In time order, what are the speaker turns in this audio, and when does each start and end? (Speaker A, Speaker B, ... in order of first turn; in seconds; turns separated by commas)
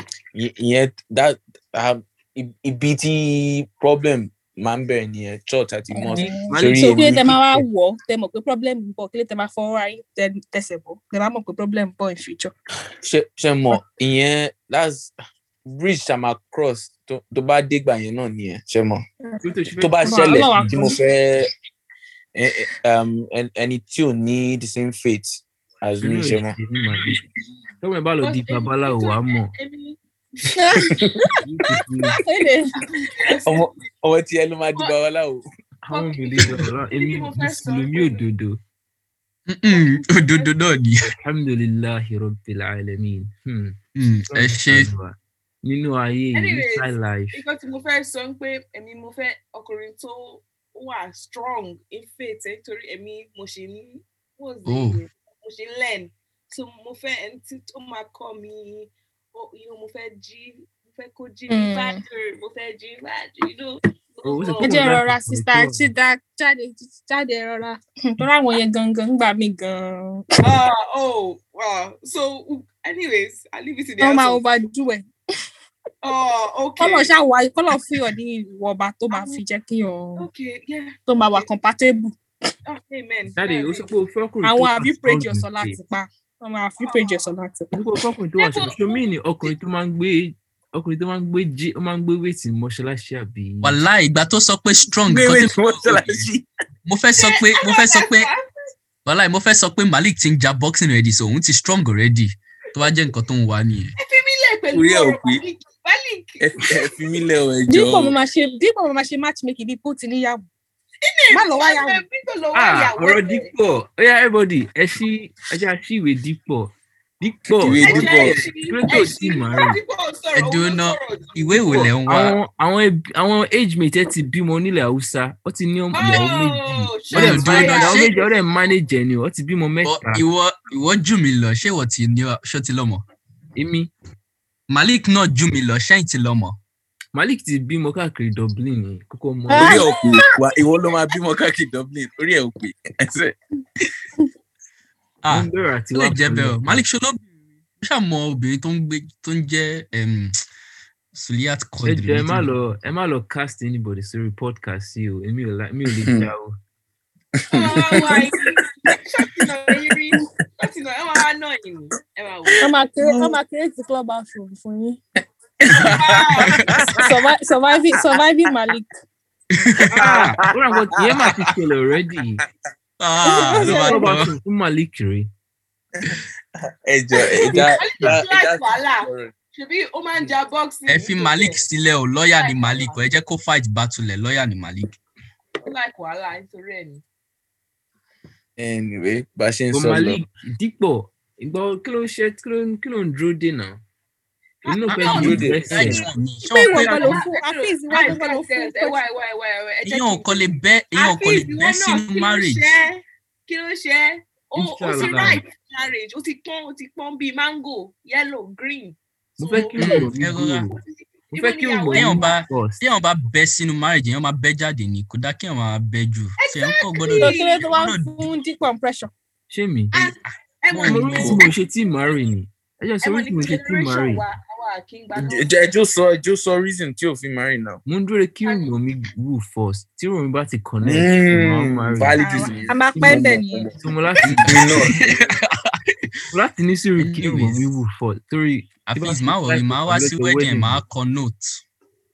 Speaker A: 0.3-7.3, Speaker B: 5.9-12.5, Speaker C: 6.1-7.7, Speaker A: 13.0-15.1, Speaker A: 15.7-19.0, Speaker C: 19.4-20.8, Speaker A: 19.8-21.5, Speaker B: 20.0-21.0, Speaker A: 22.3-26.6, Speaker C: 26.0-27.2, Speaker C: 27.8-29.5, Speaker D: 28.2-30.0, Speaker B: 30.5-31.3, Speaker A: 30.8-31.2, Speaker C: 31.4-32.2, Speaker B: 32.1-32.9, Speaker D: 32.9-33.9, Speaker A: 33.4-35.4, Speaker C: 35.8-38.6, Speaker D: 35.9-38.3, Speaker E: 39.5-41.1, Speaker D: 39.7-40.7, Speaker C: 41.0-43.8, Speaker E: 44.0-44.9, Speaker C: 44.3-47.4, Speaker D: 46.3-64.9, Speaker E: 54.6-55.0, Speaker B: 61.5-62.0, Speaker C: 64.2-65.9, Speaker B: 64.6-70.2, Speaker D: 70.4-74.4, Speaker B: 74.0-75.1, Speaker D: 76.0-77.1, Speaker B: 76.8-80.2, Speaker D: 79.1-79.4, Speaker D: 80.2-81.5, Speaker B: 81.1-82.2, Speaker D: 82.7-83.9, Speaker C: 83.3-85.8, Speaker B: 84.4-87.7, Speaker D: 86.8-87.2, Speaker C: 87.7-93.8, Speaker D: 88.4-89.1, Speaker E: 93.6-96.3, Speaker A: 95.0-96.4, Speaker E: 96.8-98.3, Speaker D: 97.2-98.5, Speaker E: 99.0-103.9, Speaker D: 104.0-106.7, Speaker A: 104.7-105.4, Speaker A: 106.4-108.2, Speaker B: 107.7-110.4, Speaker D: 111.0-113.5, Speaker B: 111.3-112.0, Speaker C: 112.5-119.8, Speaker A: 117.5-118.4, Speaker D: 117.8-121.9, Speaker E: 120.3-122.4, Speaker C: 122.1-130.2, Speaker D: 125.9-128.3, Speaker E: 127.1-128.1, Speaker E: 129.8-133.0, Speaker C: 133.6-133.9, Speaker E: 134.7-136.6, Speaker C: 137.1-139.8, Speaker B: 139.5-140.3, Speaker A: 139.6-143.3, Speaker E: 145.2-147.3, Speaker C: 145.3-146.8, Speaker E: 147.8-150.3, Speaker E: 151.1-152.5, Speaker C: 151.8-156.6, Speaker A: 156.0-156.3, Speaker A: 157.4-158.4, Speaker D: 157.5-162.6, Speaker A: 159.7-160.2, Speaker B: 162.6-165.0, Speaker A: 163.0-163.3, Speaker E: 165.7-166.9, Speaker A: 165.7-167.0, Speaker D: 165.9-166.7, Speaker B: 166.9-168.9, Speaker E: 169.5-170.1, Speaker C: 169.9-172.4, Speaker E: 173.0-174.3, Speaker B: 173.2-174.1, Speaker C: 173.6-175.3, Speaker A: 176.8-179.3, Speaker D: 177.2-181.6, Speaker C: 177.5-178.2, Speaker E: 180.9-185.0, Speaker D: 182.4-183.0, Speaker D: 185.6-187.0, Speaker A: 188.6-190.2, Speaker C: 189.7-193.8, Speaker D: 194.6-210.1, Speaker C: 194.6-196.0, Speaker E: 194.9-197.2, Speaker A: 195.1-196.1, Speaker B: 196.4-199.0, Speaker E: 199.8-202.7, Speaker C: 204.6-205.4, Speaker C: 209.4-210.8, Speaker E: 209.8-210.7, Speaker D: 210.7-212.3, Speaker C: 211.3-212.8, Speaker E: 211.9-218.3, Speaker D: 216.4-217.6, Speaker B: 217.2-219.1, Speaker C: 219.5-220.1, Speaker D: 219.9-221.5, Speaker E: 220.7-221.5, Speaker C: 220.8-224.2, Speaker D: 223.0-225.7, Speaker A: 225.2-227.8, Speaker C: 227.8-232.3, Speaker D: 228.4-228.7, Speaker A: 230.8-233.8, Speaker B: 232.2-233.7, Speaker C: 232.9-233.2, Speaker C: 233.8-234.8, Speaker E: 234.2-235.3, Speaker A: 234.4-235.1, Speaker C: 236.3-240.8, Speaker E: 237.0-237.7, Speaker E: 238.9-241.6